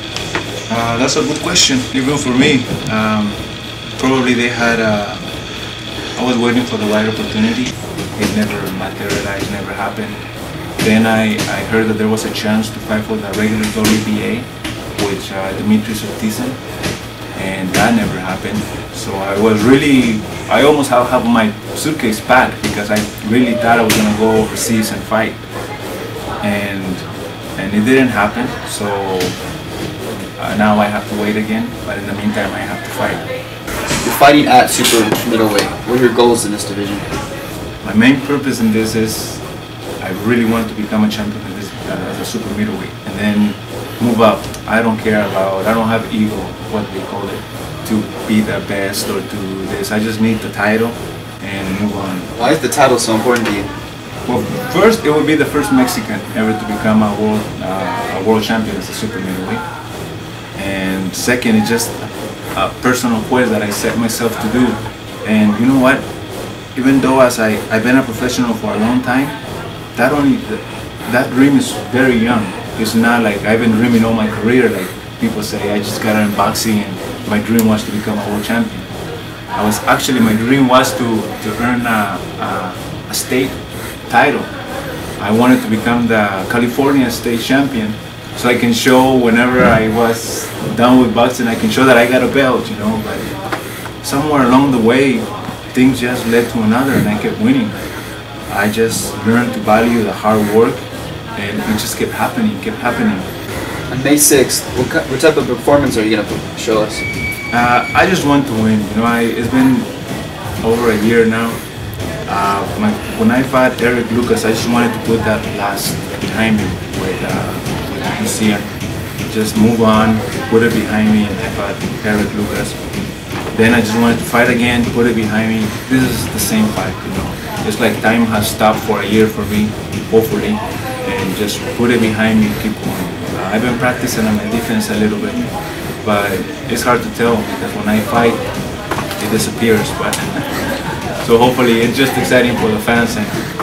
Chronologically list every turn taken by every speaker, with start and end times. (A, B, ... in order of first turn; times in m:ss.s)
0:00.7-0:03.3 A
0:04.0-0:05.2 A
0:06.2-0:10.1 A
0:10.8-0:14.4 A
0:15.0-0:16.6 A
0:17.4-0:25.3 A
0:26.4-0:27.0 A
0:27.6-0:29.3 A
0:30.4-0:33.2 A
0:34.0-0:37.1 B
0:37.8-0:39.4 A
0:40.0-0:52.3 A
0:52.3-0:53.7 B
0:54.3-0:59.6 A
1:00.6-1:02.0 A
1:02.6-1:06.0 A
1:06.8-1:09.3 A
1:10.0-1:18.8 A
1:19.6-1:23.5 A
1:24.1-1:24.5 A
1:25.2-1:33.3 A
1:34.0-1:37.7 A
1:38.5-1:40.8 A
1:41.4-1:43.2 A
1:43.9-1:47.0 B
1:47.5-1:49.9 A
1:50.6-1:51.5 A
1:52.3-1:58.6 A
1:59.3-2:02.7 A
2:03.5-2:15.4 A
2:16.0-2:18.4 A
2:19.2-2:23.4 A